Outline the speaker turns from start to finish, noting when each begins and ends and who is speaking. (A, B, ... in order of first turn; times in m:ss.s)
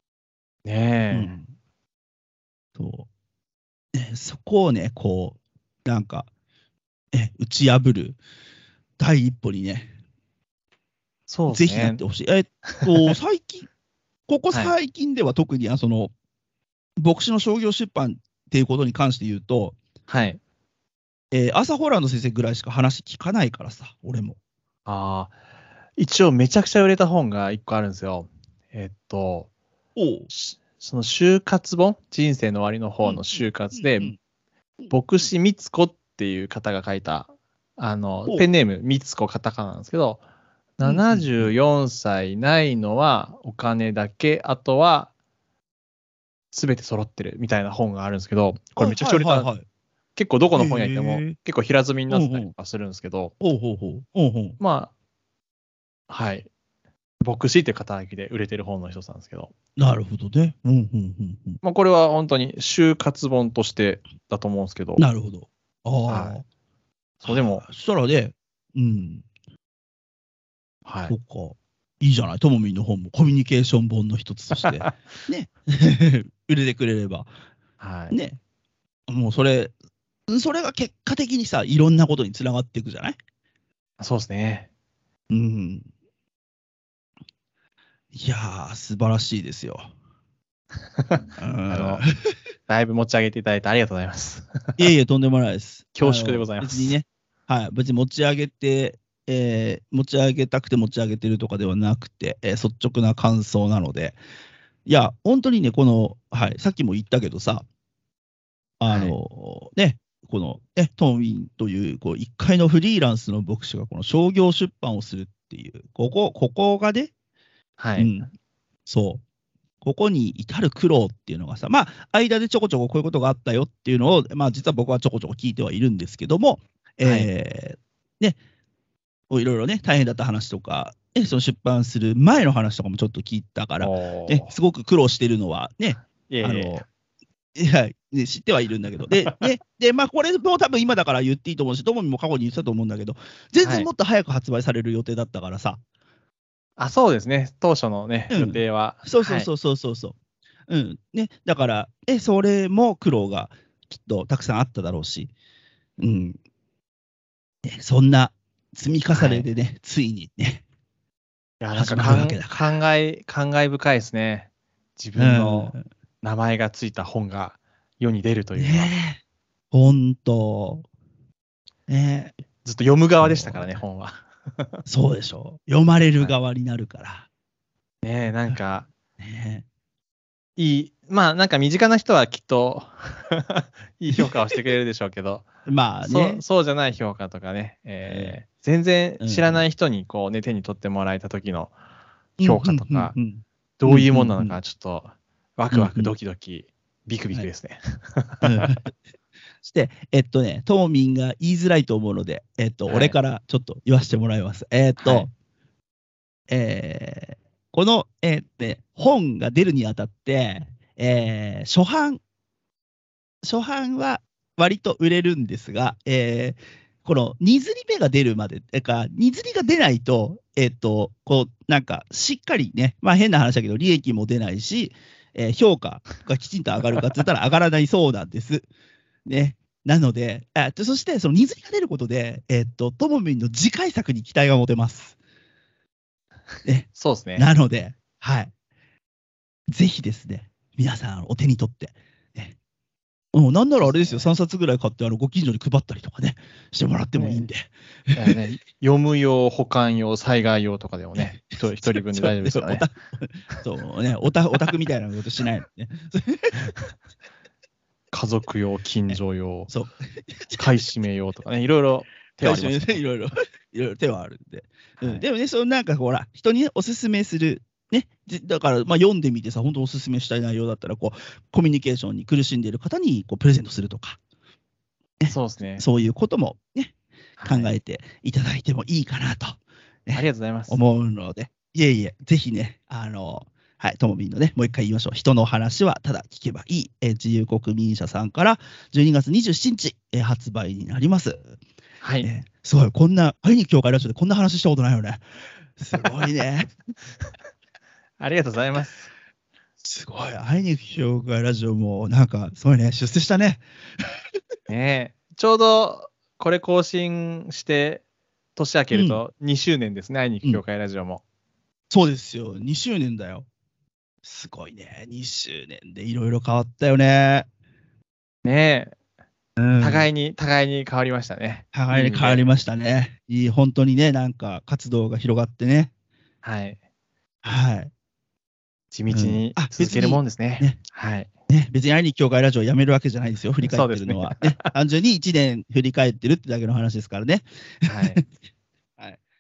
0:00.6-0:01.3 A
0:01.1-0:01.5 B
0:02.8-0:03.1 B
0:03.9-0:06.3 B
0:07.1-0:08.2 B
0:09.0-0:09.9 B
0:11.3-0:12.0 A
0:11.5-0:13.7 B
0:12.7-0:13.1 A
0:14.3-0:16.1 B
0:17.0-0:19.8 B
0:20.1-0:20.4 A
0:21.3-0:24.4 B
0:24.8-0:25.3 A
0:26.0-0:29.5 A
0:30.0-0:30.3 B
0:30.3-0:34.1 A
0:33.0-0:34.2 B
0:34.9-0:40.2 A
0:40.8-0:45.1 A
0:40.8-0:41.5 B
0:46.5-0:49.5 A
0:48.8-0:49.6 B
0:50.2-0:53.3 A
0:50.6-0:51.3 B
0:52.1-0:52.5 B
0:53.4-0:54.6 B
0:54.6-0:54.9 A
0:56.1-0:56.5 A
0:57.2-0:59.5 A
0:59.8-1:01.6 B
1:01.6-1:05.0 A
1:05.0-1:06.4 B
1:06.1-1:06.4 A
1:07.2-1:07.6 A
1:07.2-1:09.2 B
1:10.8-1:11.1 A
1:11.1-1:17.3 B
1:14.6-1:14.9 A
1:17.8-1:18.2 A
1:18.1-1:18.4 B
1:19.1-1:19.7 B
1:20.3-1:23.2 B
1:24.0-1:24.7 A
1:25.3-1:25.8 B
1:28.1-1:29.9 B
1:31.0-1:32.0 A
1:31.4-1:32.1 B
1:32.7-1:34.9 A
1:34.8-1:44.2 B
1:36.0-1:37.0 A
1:44.8-1:47.6 B
1:48.8-1:57.1 B
1:48.9-1:49.2 A
1:57.8-1:58.1 A
1:58.0-1:58.3 B
1:58.8-1:59.2 B
1:59.8-2:08.4 B
2:07.0-2:07.3 A
2:09.3-2:16.8 B
2:13.8-2:14.5 A
2:16.3-2:16.8 A
2:17.5-2:25.8 B
2:23.6-2:23.9 A
2:26.8-2:29.5 A
2:28.3-2:30.2 B
2:30.7-2:35.3 B
2:36.0-2:36.4 B
2:37.6-2:40.6 B
2:39.1-2:39.5 A
2:41.6-2:48.9 A
2:41.7-2:42.6 B
2:45.2-2:45.8 B
2:48.6-2:49.2 B
2:49.7-2:50.8 B
2:51.9-2:52.3 B
2:52.6-2:54.8 A
2:53.2-2:53.8 B
2:54.8-2:57.3 B
2:58.0-2:58.9 A
2:59.2-2:59.6 B
3:00.6-3:05.4 A
3:05.6-3:06.4 B
3:06.0-3:11.7 A
3:08.0-3:08.4 B
3:09.2-3:09.6 B
3:12.4-3:14.6 B
3:12.4-3:13.1 A
3:13.8-3:18.8 A
3:15.7-3:16.1 B
3:18.4-3:18.9 B
3:19.6-3:25.3 B
3:22.9-3:23.2 A
3:25.0-3:25.3 A
3:26.5-3:32.2 B
3:33.4-3:48.7 B
3:49.2-3:55.2 B
3:56.6-3:58.5 B
3:56.9-3:57.5 A
3:59.7-4:02.6 B
4:03.3-4:08.4 B
4:03.8-4:04.3 A
4:07.1-4:07.5 A
4:08.2-4:12.9 A
4:11.2-4:16.7 B
4:16.6-4:16.9 A
4:18.1-4:19.7 A
4:19.7-4:20.8 B
4:20.6-4:23.0 A
4:22.4-4:34.2 B
4:25.0-4:25.2 A
4:35.2-4:36.9 B
4:35.3-4:35.8 A
4:37.4-4:37.7 A
4:37.4-4:51.5 B
4:40.1-4:40.8 A
4:52.0-4:52.3 A
4:52.2-4:55.2 B
4:55.8-4:56.7 B
4:58.2-4:59.1 A
4:59.8-5:04.1 B
5:04.7-5:08.0 A
5:08.6-5:11.2 A
5:08.9-5:09.2 B
5:11.9-5:13.4 B
5:14.2-5:17.5 B
5:18.4-5:18.9 A
5:19.6-5:20.1 B
5:19.8-5:22.5 A
5:21.7-5:25.9 B
5:26.4-5:26.8 A
5:27.4-5:27.9 B
5:28.9-5:31.3 A
5:29.1-5:30.8 B
5:31.5-5:38.4 B
5:33.6-5:34.7 A
5:37.8-5:38.2 A